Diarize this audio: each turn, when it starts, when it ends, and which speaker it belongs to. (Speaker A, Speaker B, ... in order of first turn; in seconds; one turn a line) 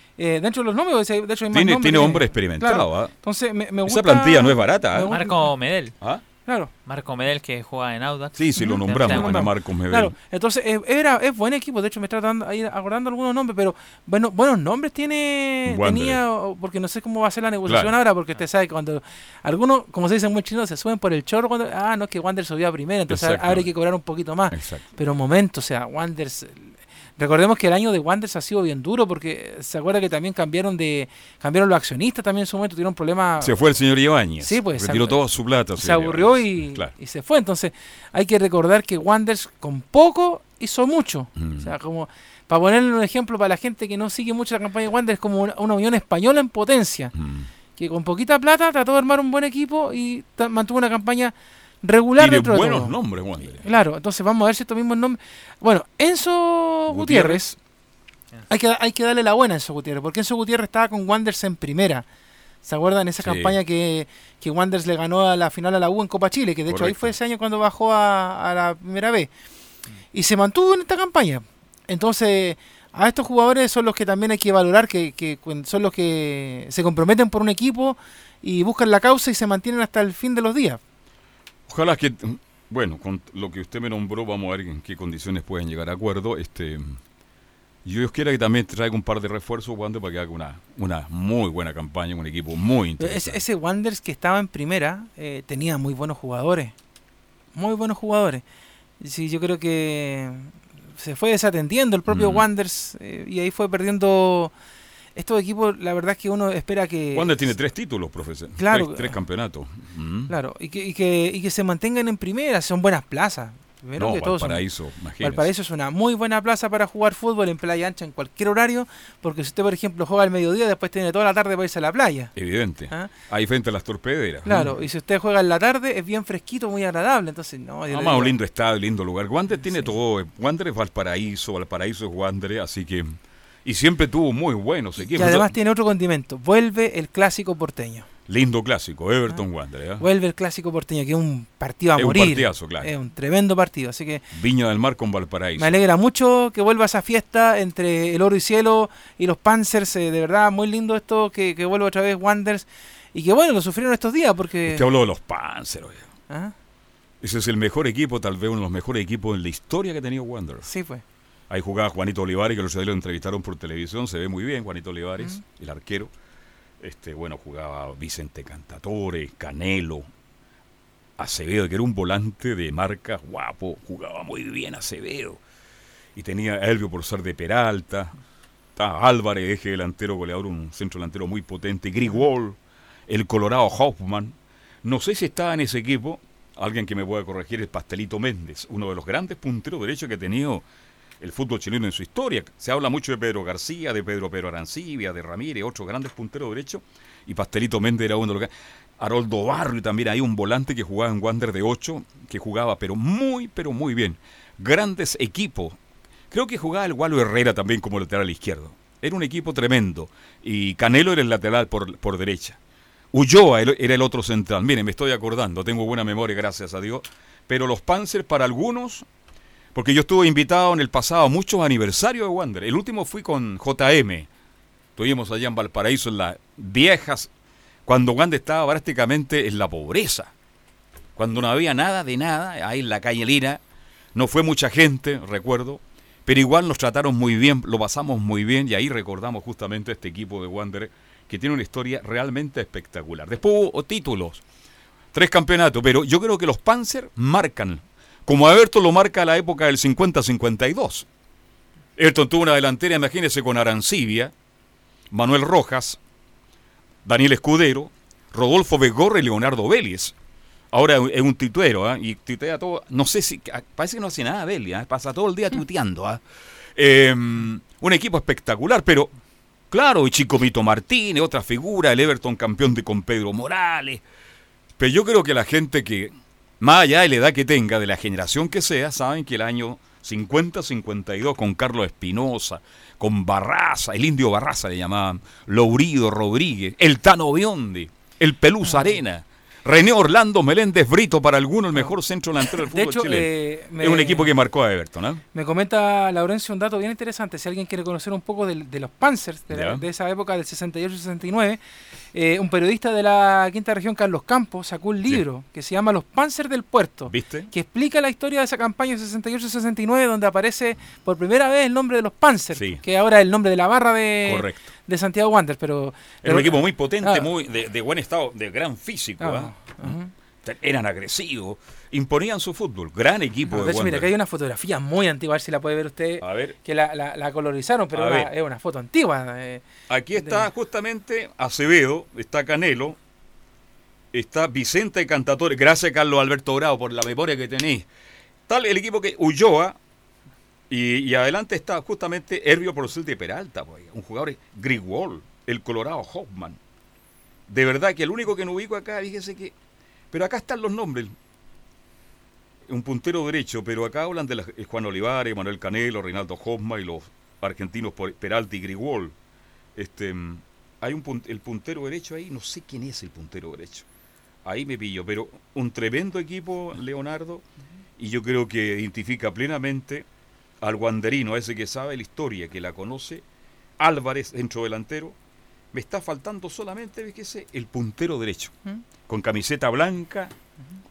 Speaker A: 0.2-5.5
Speaker B: 1.5-3.1
Speaker B: 3.9-5.1
Speaker C: 5.1-5.9
Speaker A: 6.5-6.7
Speaker C: 6.8-9.5
Speaker B: 8.4-10.1
Speaker A: 8.6-33.6
Speaker B: 15.7-16.2
Speaker B: 17.7-17.9
Speaker B: 23.1-23.7
Speaker B: 24.5-24.9
Speaker B: 33.4-36.9
Speaker A: 34.4-35.2
Speaker A: 35.8-47.1
Speaker B: 41.4-41.7
Speaker B: 47.1-47.5
Speaker A: 47.8-53.0
Speaker B: 52.2-53.7
Speaker A: 53.5-57.5
Speaker B: 56.9-57.5
Speaker A: 58.5-62.1
Speaker A: 62.6-69.3
Speaker B: 63.2-63.6
Speaker B: 66.7-67.1
Speaker A: 70.1-80.8
Speaker B: 81.7-87.0
Speaker B: 87.8-93.4
Speaker A: 93.0-96.7
Speaker A: 97.5-98.4
Speaker A: 99.0-104.5
Speaker B: 102.1-102.5
Speaker A: 105.2-107.4
Speaker B: 107.1-110.3
Speaker A: 108.6-109.2
Speaker A: 110.3-114.6
Speaker B: 114.0-115.5
Speaker A: 115.2-122.3
Speaker B: 122.3-124.8
Speaker A: 124.5-128.3
Speaker B: 127.9-135.5
Speaker A: 135.1-138.1
Speaker B: 138.3-140.0
Speaker A: 140.0-144.2
Speaker B: 142.0-142.9
Speaker B: 144.3-145.8
Speaker A: 145.6-154.8
Speaker B: 154.7-156.1
Speaker B: 157.2-160.7
Speaker A: 160.7-161.0
Speaker B: 161.5-166.1
Speaker B: 166.8-170.1
Speaker B: 171.2-175.4
Speaker B: 176.2-178.1
Speaker B: 178.8-182.6
Speaker B: 183.1-190.6
Speaker B: 191.2-205.8
Speaker B: 206.3-212.6
Speaker B: 213.1-219.1
Speaker B: 219.8-224.3
Speaker B: 225.0-227.3
Speaker B: 227.9-230.3
Speaker B: 231.2-233.6
Speaker B: 234.2-244.4
Speaker B: 245.1-251.1
Speaker B: 252.0-254.3
Speaker B: 255.1-256.0
Speaker B: 257.1-260.1
Speaker B: 260.7-266.2
Speaker B: 266.8-269.1
Speaker B: 269.7-274.0
Speaker B: 274.8-295.2
Speaker A: 288.7-288.9
Speaker A: 292.5-294.3
Speaker A: 295.3-301.6
Speaker B: 299.5-299.8
Speaker A: 302.1-317.3
Speaker B: 307.1-307.5
Speaker B: 312.6-312.8
Speaker B: 314.3-314.7
Speaker B: 316.2-319.9
Speaker A: 319.2-320.1
Speaker B: 320.4-324.1
Speaker A: 323.5-329.6
Speaker B: 326.2-326.6
Speaker B: 327.9-328.3
Speaker B: 329.9-333.0
Speaker A: 330.2-330.5
Speaker B: 334.1-337.9
Speaker B: 338.5-339.8
Speaker B: 340.7-346.6
Speaker B: 347.5-349.5
Speaker B: 350.1-351.1
Speaker B: 352.7-359.1
Speaker B: 359.8-363.9
Speaker B: 364.4-367.4
Speaker B: 368.0-370.1
Speaker B: 370.6-373.2
Speaker B: 373.8-375.1
Speaker B: 375.7-378.5
Speaker B: 379.1-380.3